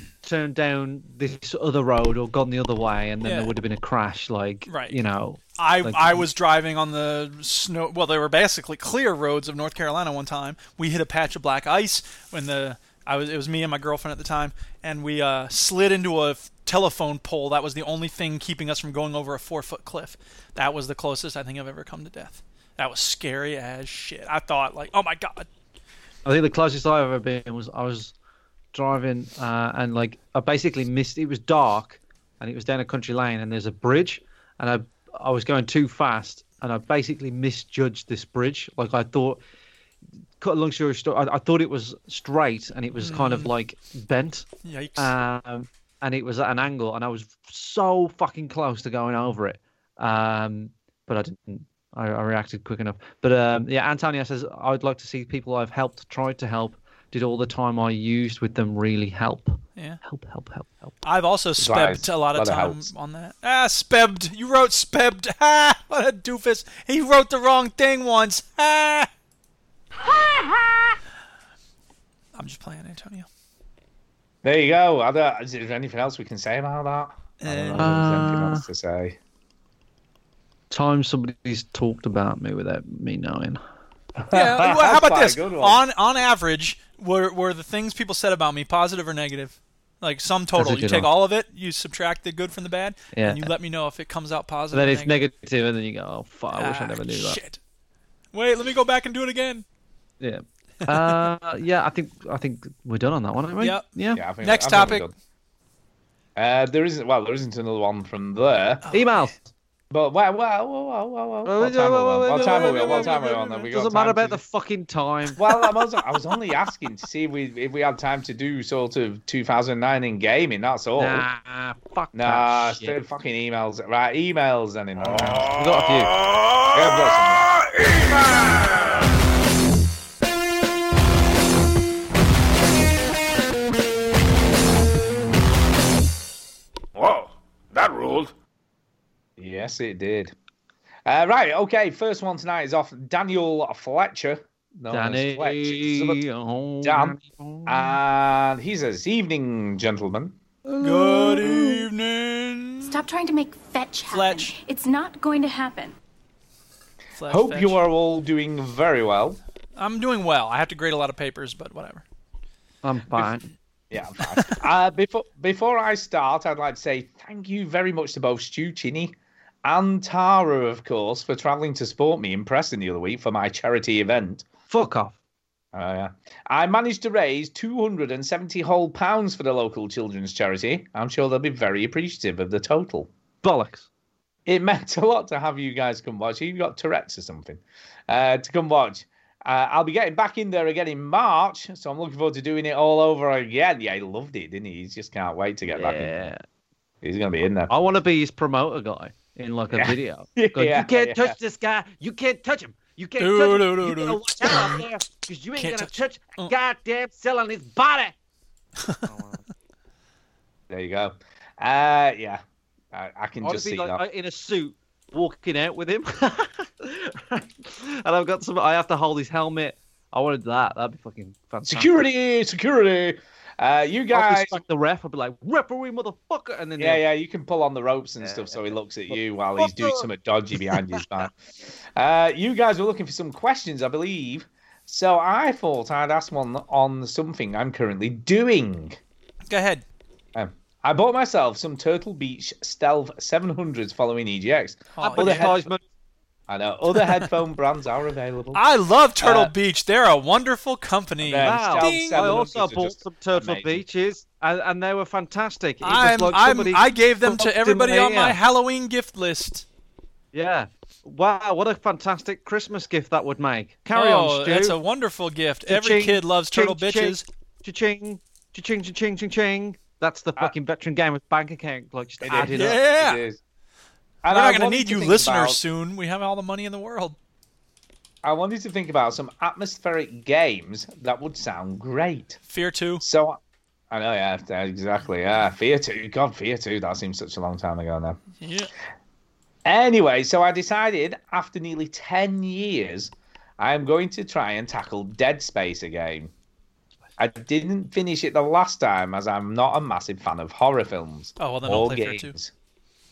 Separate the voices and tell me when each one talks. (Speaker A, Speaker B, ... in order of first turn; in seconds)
Speaker A: 0.2-6.2, 26.2-28.1, 28.7-39.4, 40.4-44.5, 45.0-60.9, 77.8-78.7, 80.7-83.6, 90.6-91.1, 93.1-93.5, 94.7-97.4, 100.2-104.2, 108.9-109.4, 111.4-115.6, 121.0-123.0, 125.3-126.2, 144.9-148.0, 151.1-151.5, 162.8-163.5, 174.7-175.2, 183.4-183.9, 195.7-196.4, 197.7-208.2, 209.1-209.4, 213.4-222.0, 224.1-227.0, 228.2-230.1, 230.6-231.0, 245.0-245.8, 251.4-258.4, 260.3-264.8, 265.7-272.8
Speaker B: 3.2-3.5, 4.7-5.0, 5.6-25.5, 43.0-43.5, 44.6-45.1, 61.0-69.1, 72.3-73.3, 77.4-77.9, 84.3-95.2, 96.5-97.6, 98.3-99.7, 100.9-101.2, 103.6-103.8, 104.4-105.1, 108.8-109.3, 112.4-113.4, 150.8-153.0, 154.1-154.6, 157.2-157.8, 159.8-162.0, 164.3-164.6, 203.2-204.6, 205.6-206.5, 239.5-239.8, 245.0-245.6, 246.9-247.2, 248.5-252.3, 255.8-259.7, 263.9-267.2, 272.4-273.2, 274.3-277.2, 282.5-283.0, 288.4-288.7, 301.4-302.4
Speaker C: 61.6-62.9, 74.4-79.2, 84.2-85.8, 104.2-105.1, 106.4-108.8, 109.9-114.4, 115.4-121.3, 122.1-125.6, 126.6-127.6, 137.0-138.3, 139.4-140.3, 141.1-146.2, 146.8-150.3, 151.3-151.7, 157.3-159.4, 163.9-169.1, 169.6-174.4, 175.7-183.1, 184.5-196.3, 197.0-197.7, 199.7-201.3, 210.7-212.4, 212.9-214.0, 221.7-224.6, 226.8-231.3, 232.0-239.0, 240.3-245.6, 246.5-248.6, 249.2-249.5, 251.2-253.8, 272.2-273.4, 274.2-275.6, 278.2-282.4, 283.0-283.4, 283.9-288.2, 289.6-296.3, 297.2-302.5
Speaker D: 152.8-156.0